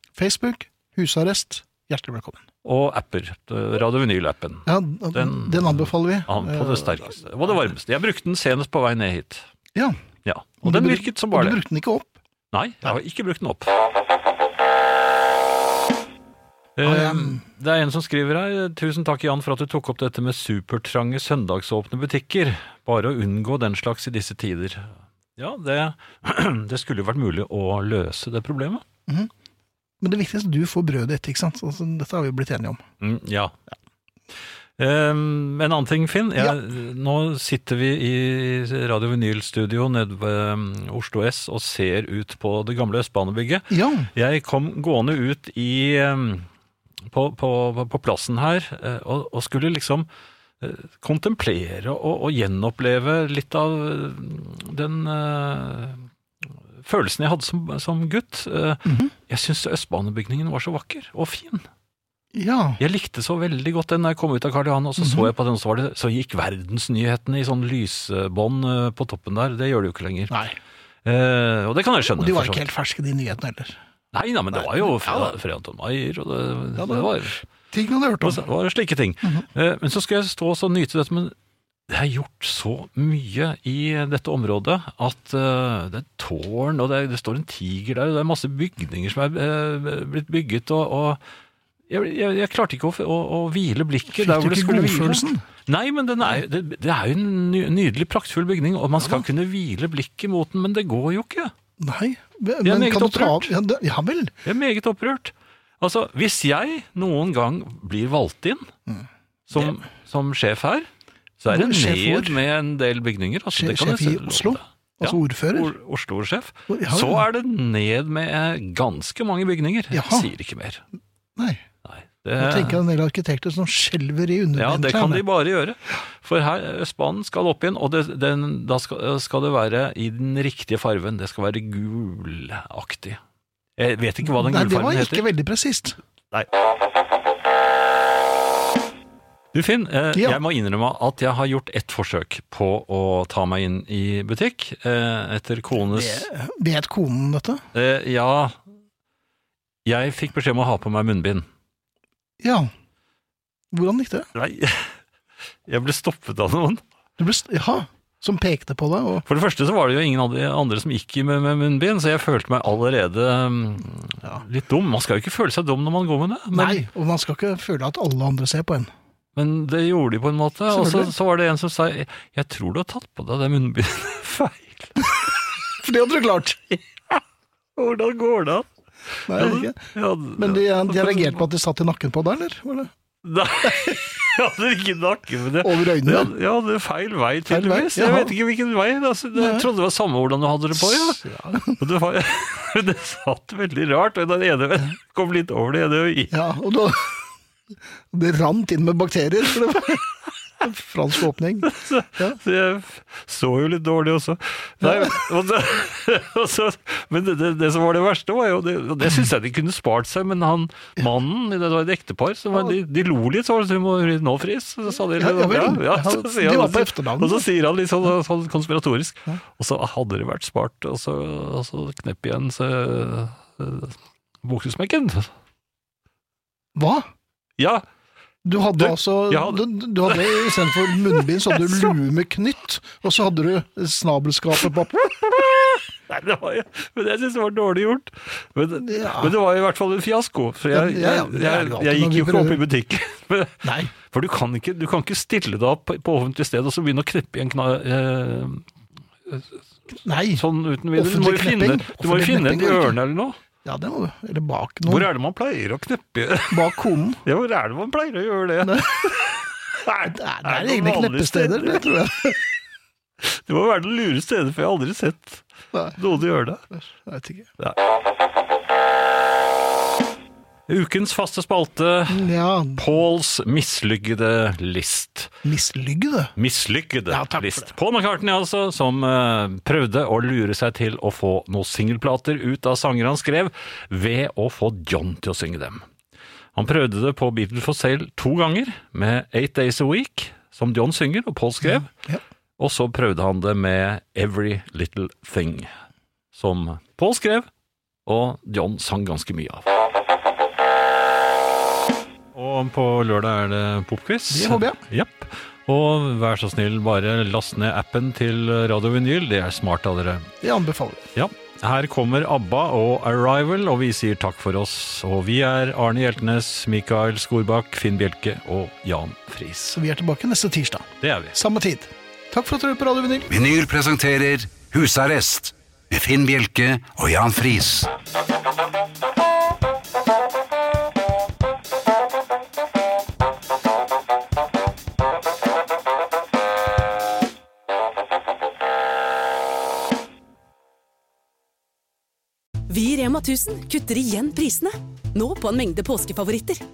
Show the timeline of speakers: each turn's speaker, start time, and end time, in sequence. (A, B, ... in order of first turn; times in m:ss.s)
0:00.2-0:02.4 A
0:02.6-0:09.5 B
0:04.6-0:07.1 A
0:10.2-0:11.6 B
0:10.6-0:12.2 A
0:12.5-0:13.7 B
0:16.8-0:28.8 B
0:16.8-0:17.4 A
0:30.0-0:32.8 A
0:33.0-0:33.6 B
0:34.8-0:46.5 B
0:43.7-0:44.1 A
0:47.1-0:50.1 B
0:50.6-0:56.1 B
0:56.8-1:01.6 B
0:58.8-0:59.1 A
1:02.3-1:02.8 A
1:02.8-1:10.4 B
1:05.0-1:05.3 A
1:10.3-1:10.6 A
1:11.0-1:12.6 B
1:12.2-1:13.8 A
1:14.1-1:17.4 B
1:14.5-1:15.3 A
1:16.8-1:18.4 A
1:18.2-1:21.3 B
1:21.9-1:31.2 B
1:31.9-1:41.5 B
1:34.1-1:35.4 A
1:41.8-1:44.3 A
1:42.6-1:43.5 B
1:44.4-1:48.7 B
1:48.9-1:49.7 A
1:49.5-1:50.9 B
1:51.4-2:00.8 B
1:51.5-1:52.4 A
1:53.5-1:55.7 A
1:56.7-1:57.2 A
1:59.9-2:00.3 A
2:01.4-2:01.6 A
2:01.8-2:02.8 B
2:02.4-2:05.2 A
2:04.5-2:13.2 B
2:13.8-2:15.2 B
2:14.2-2:16.0 A
2:19.5-2:26.3 B
2:25.9-2:27.6 A
2:27.7-2:28.6 B
2:29.8-2:31.4 B
2:32.4-2:32.7 A
2:33.7-2:34.3 A
2:34.3-2:35.0 B
2:35.7-2:36.8 B
2:37.2-2:39.2 A
2:39.3-2:46.8 B
2:46.5-2:48.9 A
2:49.4-2:55.1 B
2:50.7-2:51.1 A
2:55.8-2:56.8 A
2:57.8-2:58.7 B
2:59.3-3:02.9 A
2:59.3-3:01.4 B
3:03.2-3:11.2 B
3:05.6-3:06.3 A
3:07.5-3:08.3 A
3:09.3-3:09.7 A
3:10.7-3:11.8 A
3:11.8-3:16.3 B
3:16.3-3:17.2 A
3:18.1-3:20.1 A
3:20.6-3:22.4 A
3:21.6-3:45.3 B
3:24.8-3:25.2 A
3:35.0-3:37.4 A
3:46.8-3:47.1 A
3:47.6-3:47.8 B
3:48.4-3:55.1 A
3:48.7-3:51.9 B
3:55.0-4:08.6 B
3:58.8-3:59.3 A
4:00.7-4:02.6 A
4:03.6-4:03.9 A
4:09.2-4:09.6 B
4:10.0-4:13.0 A
4:10.3-4:13.4 B
4:13.6-4:15.1 A
4:14.8-4:21.8 B
4:16.5-4:17.2 A
4:18.6-4:19.1 A
4:20.0-4:22.4 A
4:23.2-4:25.4 B
4:25.7-4:26.0 A
4:26.0-4:26.6 B
4:27.0-4:27.5 A
4:30.7-4:35.3 B
4:32.1-4:32.8 A
4:35.4-4:36.3 A
4:36.4-4:45.8 B
4:37.1-4:37.7 A
4:46.5-4:51.9 B
4:51.7-4:52.2 A
4:52.6-4:55.7 B
4:56.3-4:57.5 B
4:58.0-4:59.6 B
5:02.3-5:10.3 B
5:04.3-5:04.8 A
5:10.4-5:11.1 A
5:11.1-5:19.8 B
5:19.7-5:23.3 A
5:21.0-5:21.4 B
5:23.3-5:27.9 C
5:42.7-5:46.6 D